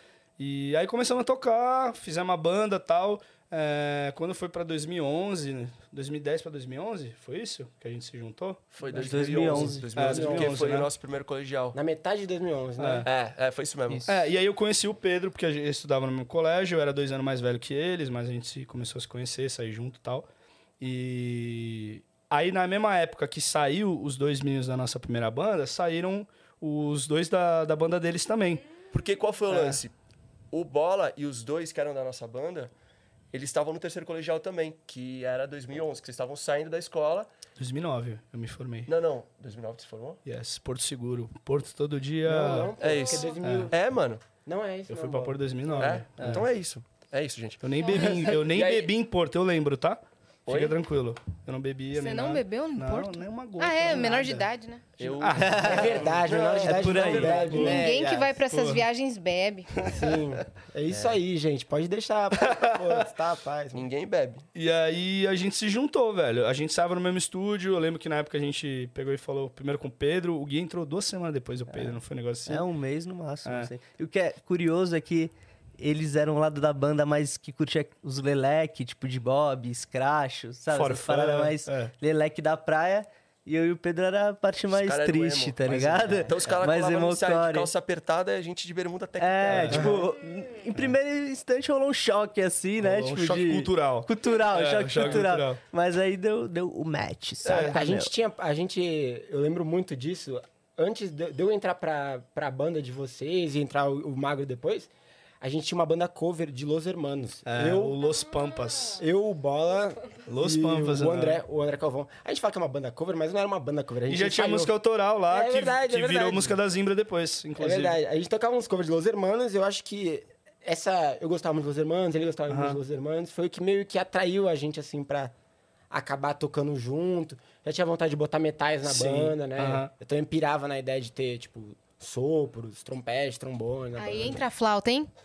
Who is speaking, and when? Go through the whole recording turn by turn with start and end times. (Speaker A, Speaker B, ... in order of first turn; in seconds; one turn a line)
Speaker A: 0.4-10.9
Speaker B: 8.7-11.8
Speaker C: 8.9-10.0
Speaker D: 8.9-10.7
Speaker D: 11.7-13.1
Speaker A: 12.8-13.1
Speaker B: 13.0-14.1
Speaker A: 14.1-20.3
Speaker A: 20.8-28.7
Speaker B: 28.9-29.9
Speaker A: 29.5-29.8
Speaker B: 30.5-32.7
Speaker B: 33.3-37.3
Speaker A: 37.6-38.9
Speaker B: 38.9-40.2
Speaker A: 40.2-42.8
Speaker D: 42.2-43.8
Speaker B: 42.8-44.2
Speaker E: 42.8-43.4
Speaker A: 43.4-43.7
Speaker D: 44.4-46.0
Speaker A: 44.9-46.5
Speaker B: 45.8-48.9
Speaker A: 47.6-54.5
Speaker E: 47.8-48.3
Speaker B: 50.5-50.8
Speaker E: 51.9-54.9
Speaker B: 55.0-57.4
Speaker A: 55.0-57.9
Speaker C: 55.4-55.9
Speaker D: 55.6-58.0
Speaker C: 56.6-58.3
Speaker E: 57.6-59.9
Speaker A: 58.5-58.8
Speaker D: 59.9-63.9
Speaker A: 62.4-63.0
Speaker B: 63.7-64.5
Speaker A: 64.5-72.7
Speaker C: 72.5-87.7
Speaker A: 73.4-73.7
Speaker A: 80.7-81.9
Speaker B: 84.7-89.9
Speaker C: 89.2-98.1
Speaker A: 89.4-90.0
Speaker A: 92.8-95.6
Speaker A: 97.4-97.8
Speaker D: 97.5-108.0
Speaker A: 107.5-109.0
Speaker D: 109.0-114.7
Speaker A: 110.3-111.4
Speaker A: 114.1-118.0
Speaker D: 115.3-116.6
Speaker D: 117.6-125.3
Speaker A: 122.5-122.8
Speaker D: 125.9-134.4
Speaker A: 128.8-129.9
Speaker E: 134.0-135.1